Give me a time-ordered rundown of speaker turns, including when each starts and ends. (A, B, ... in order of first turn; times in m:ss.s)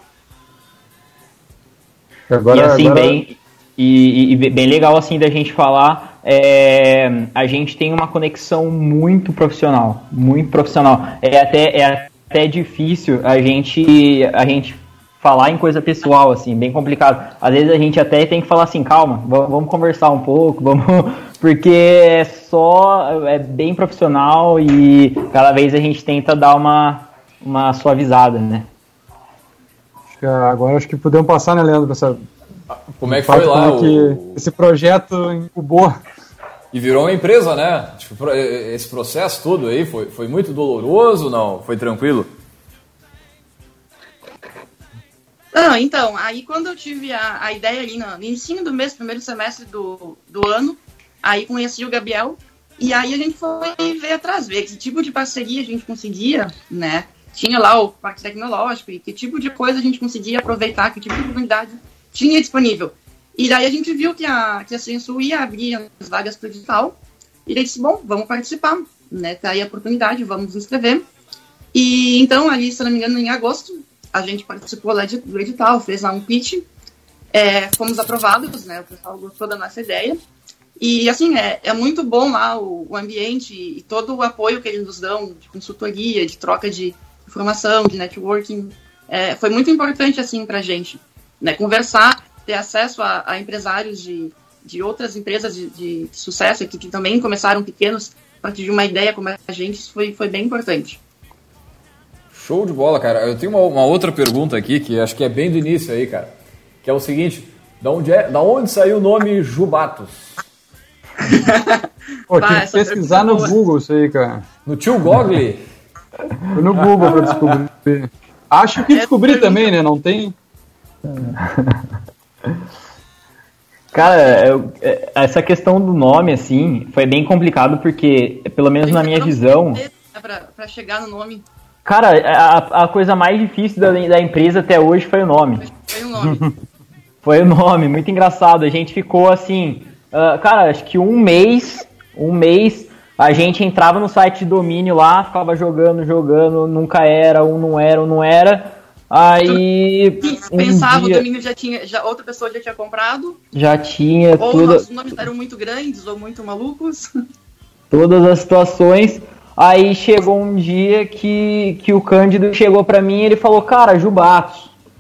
0:02.3-0:03.2 A
0:02.5-0:28.7 B
0:30.1-0:32.2 A
0:32.9-0:34.4 C
0:33.0-0:36.0 A
0:36.7-0:42.3 C
0:45.5-1:07.0 D
1:07.5-1:11.1 D
1:11.7-1:16.7 D
1:17.3-1:20.2 D
1:20.8-1:41.0 D
1:42.3-1:46.3 C
1:46.8-1:50.3 C
1:51.2-1:53.5 D
1:52.3-1:54.5 A
1:54.7-1:55.6 C
1:56.5-2:00.4 A
1:58.9-1:59.7 D
2:01.2-2:01.7 B
2:03.9-2:09.8 B
2:08.8-2:11.4 D
2:11.8-2:15.7 B
2:15.7-2:16.4 D
2:16.2-2:16.5 A
2:17.2-2:31.2 B
2:30.2-2:33.4 D
2:33.5-2:34.9 B
2:34.4-2:37.1 D
2:37.9-2:44.7 B